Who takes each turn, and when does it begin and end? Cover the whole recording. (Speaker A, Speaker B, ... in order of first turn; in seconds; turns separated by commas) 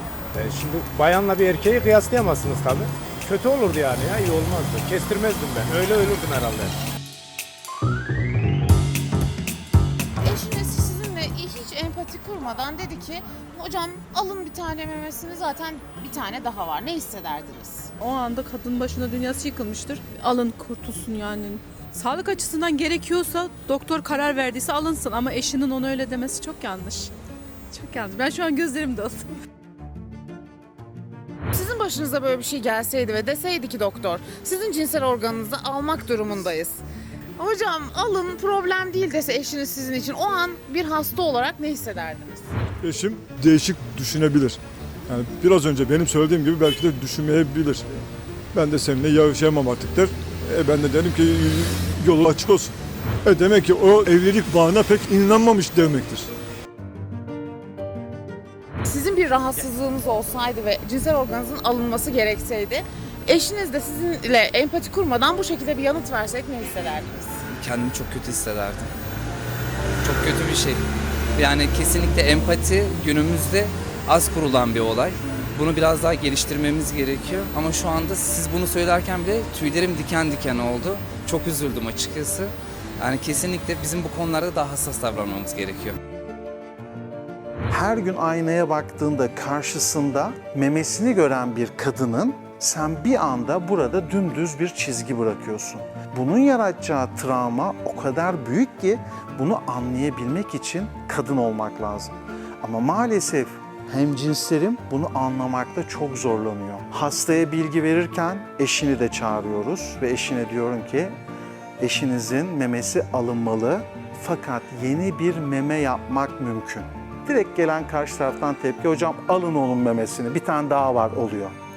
Speaker A: 0.3-6.8, Speaker B: 10.2-17.9, Speaker C: 18.0-27.1, Speaker C: 27.7-29.4, Speaker B: 31.5-36.8, Speaker B: 37.4-42.5, Speaker D: 42.8-48.0, Speaker D: 48.5-52.8, Speaker D: 53.3-56.3, Speaker B: 58.9-67.4, Speaker E: 67.5-68.9, Speaker E: 70.0-70.8, Speaker E: 71.4-86.0, Speaker F: 87.7-111.1, Speaker F: 111.8-121.5